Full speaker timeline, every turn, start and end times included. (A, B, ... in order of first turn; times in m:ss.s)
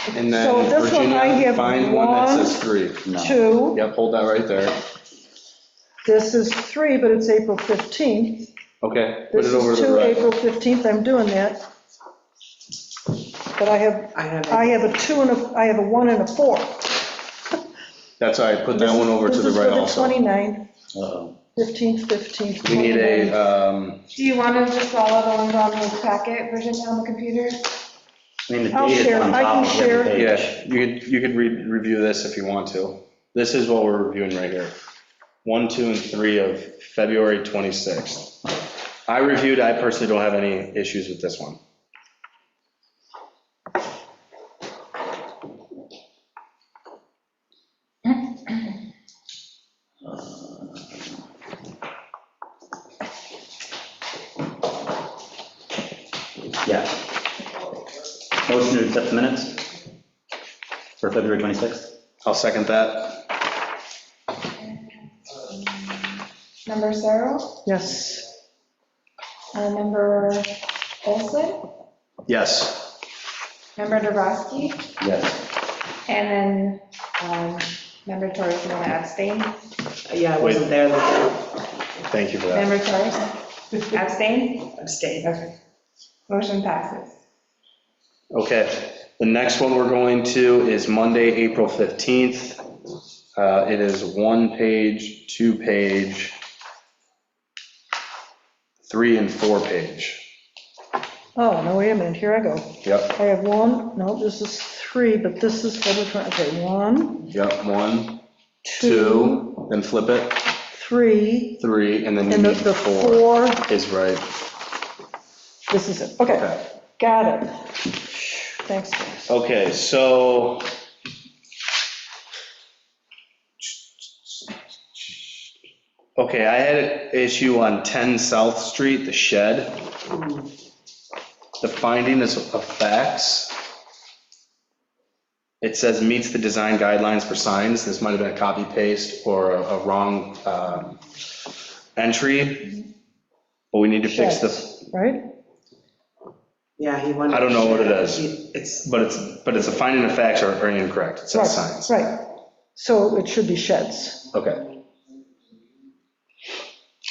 0:00.1-0:03.1 A
0:00.3-0:03.8 B
0:03.0-0:03.4 C
0:03.7-0:04.8 A
0:06.0-0:08.5 B
0:08.8-0:10.4 A
0:09.3-0:11.6 B
0:13.6-0:17.0 B
0:14.1-0:14.9 D
0:18.2-0:20.2 A
0:18.7-0:20.6 B
0:20.9-0:21.4 C
0:21.6-0:23.4 B
0:22.6-0:24.0 A
0:24.1-0:27.6 E
0:28.5-0:30.4 C
0:28.7-0:30.6 B
0:30.1-0:34.7 A
0:35.4-0:38.4 A
0:39.1-0:41.6 A
0:50.0-0:50.8 C
0:56.6-0:57.0 C
0:58.4-0:59.6 C
1:01.0-1:01.9 C
1:02.2-1:03.2 A
1:05.5-1:07.6 E
1:07.6-1:08.2 B
1:09.5-1:10.5 E
1:11.0-1:11.6 E
1:12.3-1:12.9 A
1:13.8-1:14.9 E
1:15.0-1:15.4 C
1:16.1-1:19.6 E
1:20.1-1:21.4 D
1:20.4-1:20.7 A
1:22.1-1:22.8 A
1:22.5-1:24.7 E
1:24.7-1:25.5 D
1:26.3-1:27.2 E
1:28.3-1:32.6 A
1:33.4-1:36.4 A
1:38.9-1:40.2 A
1:41.3-1:47.3 B
1:42.8-1:43.2 A
1:47.3-1:48.2 A
1:48.6-1:49.6 B
1:48.8-1:50.4 A
1:50.7-1:51.6 B
1:51.6-1:54.2 A
1:52.2-1:53.6 B
1:55.7-1:59.3 B
1:56.2-1:56.6 A
1:59.3-2:00.7 A
2:03.6-2:05.5 A
2:06.2-2:09.8 A
2:11.6-2:13.5 A
2:15.6-2:21.0 A
2:22.0-2:22.8 A
2:23.7-2:24.8 A
2:24.0-2:25.2 B
2:26.8-2:28.8 D
2:27.3-2:31.9 A
2:31.3-2:34.2 B
2:34.3-2:34.6 A